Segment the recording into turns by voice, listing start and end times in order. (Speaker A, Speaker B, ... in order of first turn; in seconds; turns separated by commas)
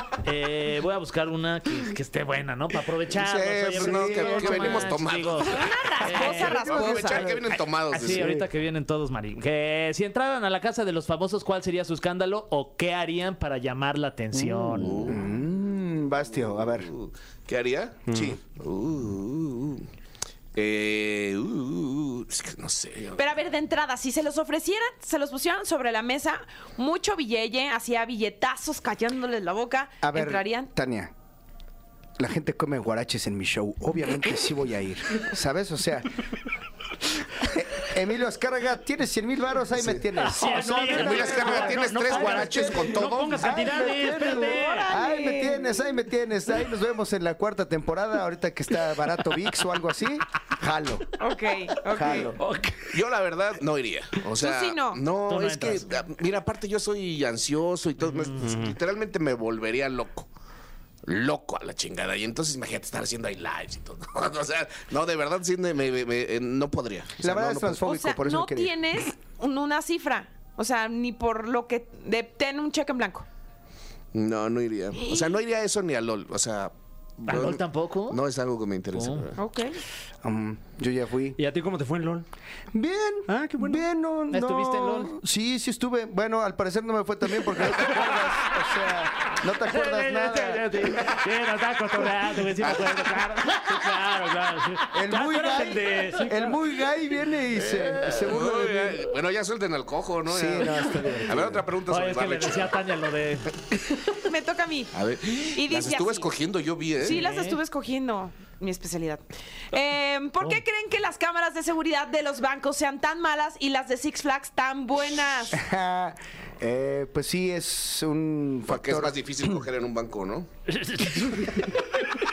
Speaker A: 0.2-6.9, Speaker B: 3.1-8.4, Speaker C: 3.8-4.9, Speaker D: 5.4-7.3, Speaker C: 6.6-7.5, Speaker A: 7.9-15.1, Speaker C: 8.1-8.5, Speaker B: 14.7-15.3, Speaker C: 15.0-16.9, Speaker B: 16.6-19.9, Speaker E: 18.1-18.4, Speaker C: 18.1-18.4, Speaker B: 20.6-23.3, Speaker D: 23.2-30.7, Speaker C: 30.0-31.1, Speaker C: 32.2-36.1, Speaker C: 37.4-51.1, Speaker E: 40.2-44.9, Speaker B: 40.7-43.5, Speaker D: 44.3-45.7, Speaker D: 51.2-52.3, Speaker C: 51.9-52.4, Speaker E: 52.4-52.9, Speaker B: 52.9-60.3, Speaker D: 54.4-55.0, Speaker A: 55.3-55.9, Speaker E: 58.4-58.8, Speaker B: 61.0-67.8, Speaker C: 67.2-68.7, Speaker D: 67.8-73.3, Speaker B: 74.1-79.4, Speaker D: 75.0-75.3, Speaker A: 77.2-78.2, Speaker A: 78.9-79.3, Speaker D: 79.4-79.8, Speaker C: 80.2-81.4, Speaker E: 81.4-82.3, Speaker C: 82.7-91.2, Speaker E: 83.3-83.8, Speaker A: 84.3-85.1, Speaker A: 89.6-96.2, Speaker B: 92.6-93.3, Speaker E: 93.7-96.5, Speaker C: 94.9-99.1, Speaker B: 98.2-102.8, Speaker C: 100.3-101.6, Speaker A: 100.6-103.5, Speaker D: 104.2-104.9, Speaker B: 104.9-107.2, Speaker D: 105.5-106.3, Speaker D: 107.0-115.6, Speaker A: 107.0-107.6, Speaker C: 115.5-119.5, Speaker B: 118.7-120.5, Speaker E: 120.7-121.9